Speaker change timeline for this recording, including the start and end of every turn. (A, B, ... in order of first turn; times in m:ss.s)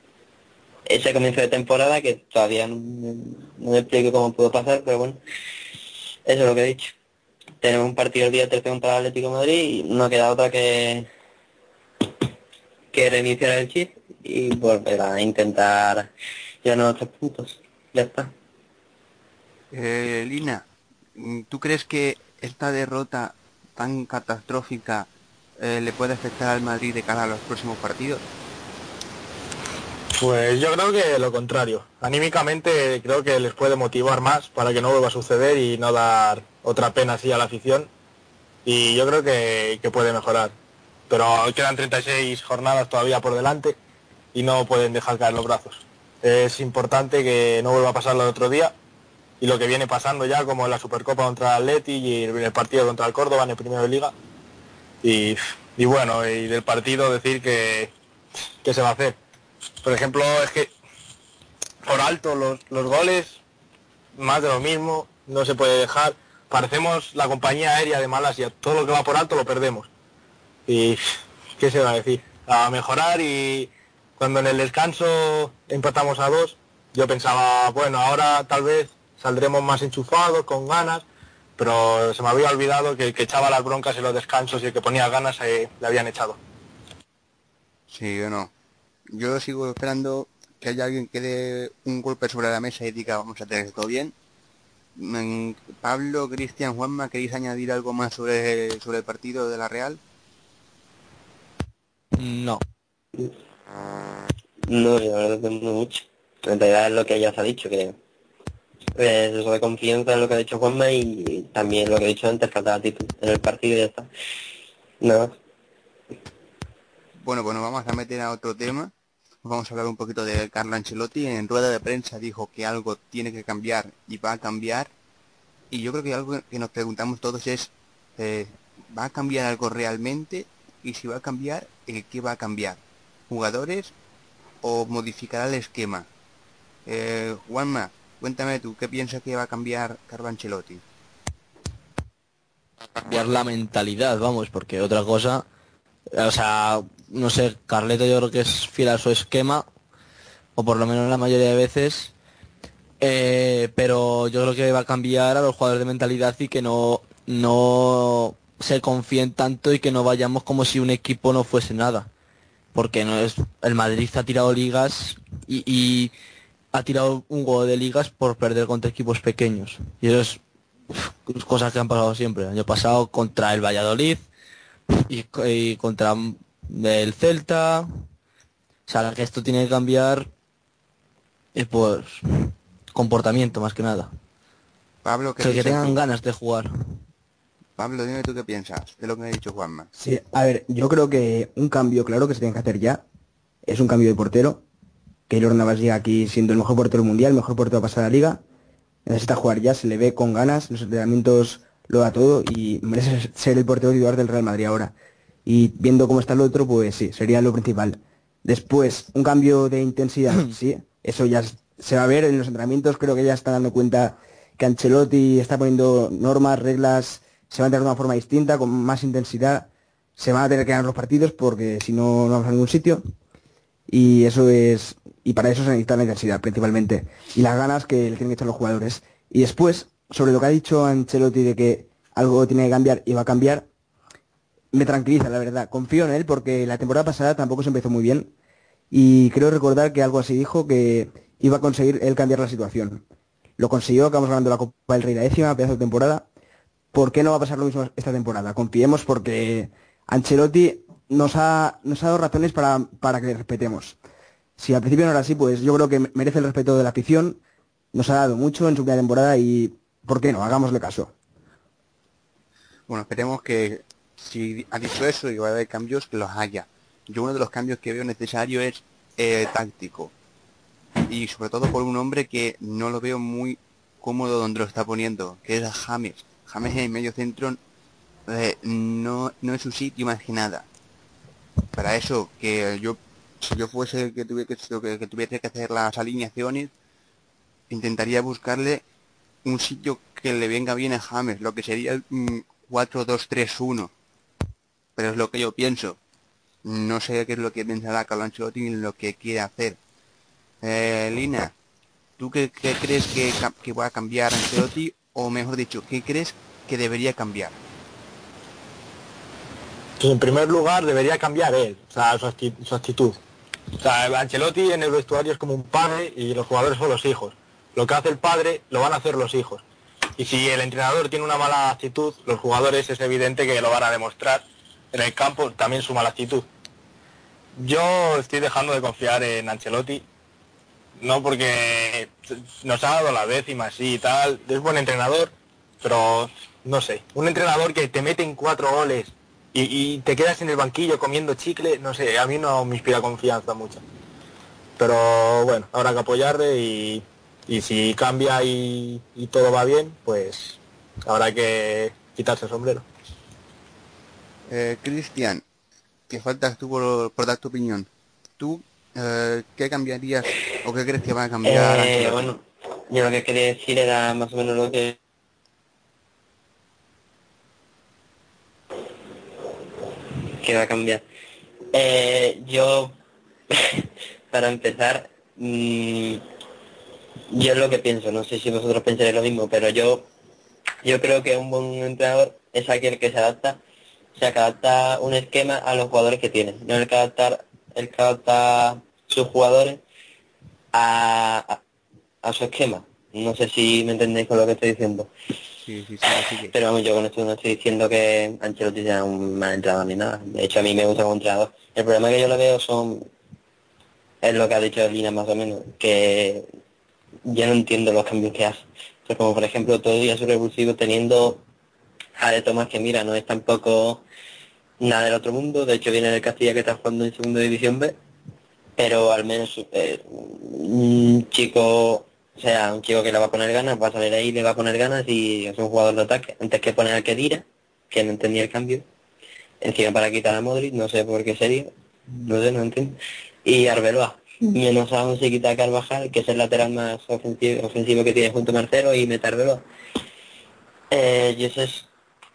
0:00.9-0:05.2 A
0:06.2-0:06.9 A
0:07.6-0:11.1 A
0:12.9-0:16.1 A
0:16.6-0:18.3 A
0:19.7-0:20.6 B
0:21.2-0:25.1 B
0:25.6-0:28.2 B
0:30.2-0:37.9 C
0:38.6-0:40.5 C
0:41.1-0:43.8 C
0:44.3-0:48.7 C
0:49.4-0:54.1 C
0:55.0-0:57.9 C
0:58.6-0:59.2 C
0:59.8-1:00.7 C
1:01.8-1:03.4 C
1:04.2-1:09.9 C
1:10.7-1:21.0 C
1:21.6-1:26.4 C
1:27.9-1:28.5 B
1:29.1-1:34.1 B
1:35.0-1:40.0 B
1:42.2-1:42.6 D
1:44.7-1:48.0 A
1:49.0-1:54.1 A
1:55.0-1:55.3 A
1:57.2-1:58.9 B
1:59.4-2:04.9 B
2:05.7-2:13.9 B
2:14.6-2:16.1 B
2:16.8-2:20.8 B
2:23.0-2:25.4 D
2:26.1-2:29.6 D
2:30.6-2:32.1 D
2:33.0-2:42.1 D
2:42.7-2:46.1 D
2:46.7-2:50.4 D
2:50.9-2:54.3 D
2:55.0-2:57.9 D
2:58.9-3:00.3 D
3:01.5-3:04.1 D
3:05.0-3:05.9 B
3:05.4-3:06.7 D
3:07.8-3:09.9 B
3:10.0-3:13.0 E
3:13.6-3:14.6 E
3:15.3-3:18.4 E
3:19.0-3:24.9 E
3:25.4-3:43.0 E
3:43.9-3:53.6 E
3:54.7-3:58.3 E
3:58.9-4:03.0 E
4:03.6-4:06.2 E
4:06.9-4:14.0 E
4:14.6-4:17.4 E
4:17.9-4:21.1 E
4:22.9-4:30.1 B
4:31.1-4:37.6 B
4:38.3-4:40.7 B
4:41.7-4:46.7 B
4:47.7-4:48.8 B
4:49.4-4:53.9 B
4:55.0-4:56.0 B
4:56.6-4:59.8 B
5:00.6-5:01.5 B
5:02.2-5:07.6 B
5:10.0-5:13.2 C
5:13.8-5:19.6 C
5:20.2-5:26.4 C
5:27.6-5:30.0 C
5:31.0-5:43.8 C
5:44.8-5:52.8 C
5:54.5-5:55.4 B
5:56.1-5:57.9 B
5:58.4-6:02.3 B
6:01.4-6:05.0 A
6:10.4-6:11.0 A
6:11.7-6:12.9 A
6:13.5-6:16.2 A
6:17.3-6:20.0 A
6:20.8-6:23.6 A
6:24.2-6:29.8 A
6:30.7-6:31.6 A
6:32.2-6:35.1 A
6:35.6-6:36.5 B
6:36.5-6:43.1 A
6:44.2-6:46.5 A
6:47.3-6:51.4 A
6:52.2-6:54.0 A
6:54.8-6:57.9 A
6:58.8-7:08.8 A
7:09.6-7:19.6 A
7:20.9-7:21.9 A